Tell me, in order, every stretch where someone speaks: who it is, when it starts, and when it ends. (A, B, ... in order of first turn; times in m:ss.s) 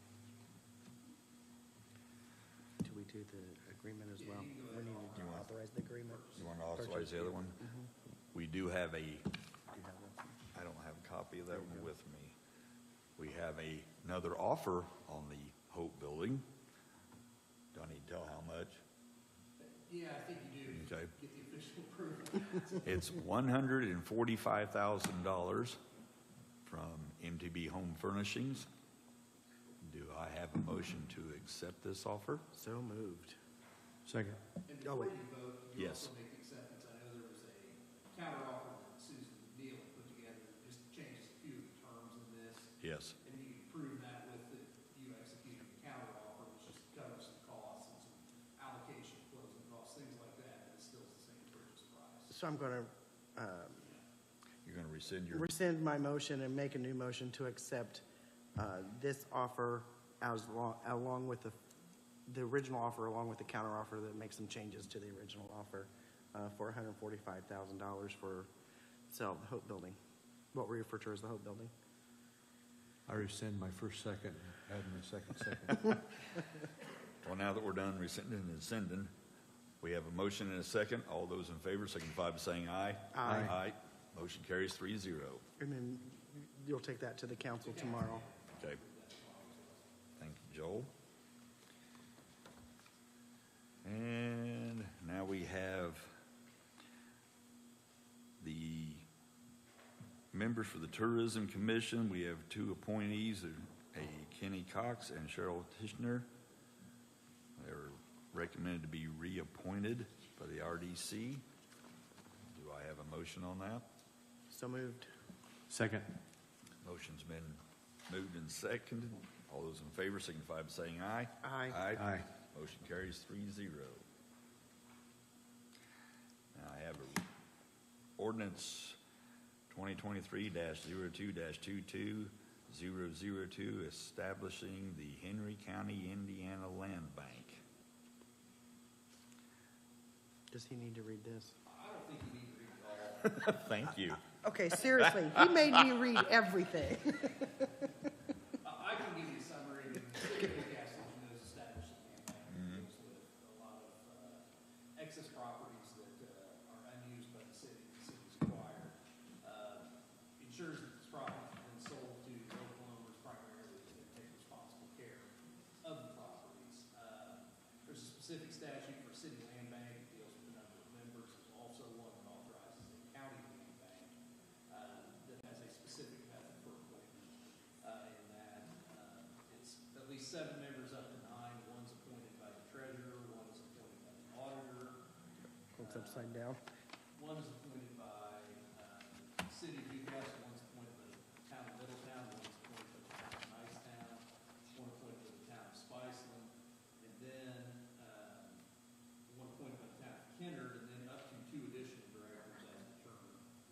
0:02.8-0:07.9 A
0:04.2-0:05.4 B
0:05.2-0:05.5 C
0:06.2-0:06.4 B
0:06.4-0:07.6 C
0:08.3-0:09.3 C
0:09.7-0:10.3 A
0:10.5-0:12.3 C
0:11.5-0:11.9 A
0:13.2-0:16.4 C
0:17.7-0:18.8 C
0:19.6-0:22.9 B
0:20.7-0:21.1 C
0:22.8-0:25.8 C
0:26.6-0:28.7 C
0:29.8-0:32.5 C
0:32.5-0:33.4 A
0:34.0-0:34.4 D
0:34.6-0:52.3 B
0:34.8-0:35.1 A
0:35.8-0:36.1 C
0:42.8-0:43.2 C
0:52.3-0:53.9 A
0:54.6-0:55.5 C
0:55.3-0:58.0 A
0:58.5-1:01.6 A
1:02.3-1:08.5 A
1:09.1-1:10.0 A
1:10.5-1:11.7 A
1:13.1-1:16.0 D
1:17.2-1:19.1 C
1:19.8-1:25.4 C
1:23.1-1:23.5 A
1:23.2-1:23.5 D
1:25.6-1:28.2 A
1:27.6-1:30.0 B
1:30.2-1:30.9 C
1:33.8-1:36.1 C
1:38.4-1:39.0 C
1:40.3-1:46.3 C
1:47.6-1:51.4 C
1:52.5-1:53.8 C
1:54.5-1:55.0 A
1:55.7-1:56.2 D
1:56.8-2:04.0 C
2:01.4-2:01.8 A
2:01.9-2:02.3 D
2:06.5-2:07.3 C
2:08.2-2:09.0 C
2:09.7-2:17.6 C
2:20.5-2:21.6 A
2:21.6-2:23.6 B
2:23.4-2:24.4 C
2:24.4-2:27.5 A
2:24.9-2:26.0 C
2:28.6-2:45.3 B
2:32.5-2:32.8 C
2:45.8-2:54.2 B
2:54.7-3:05.0 B
3:05.8-3:06.6 A
3:05.8-3:06.4 B
3:07.1-3:18.6 B
3:19.3-3:23.4 B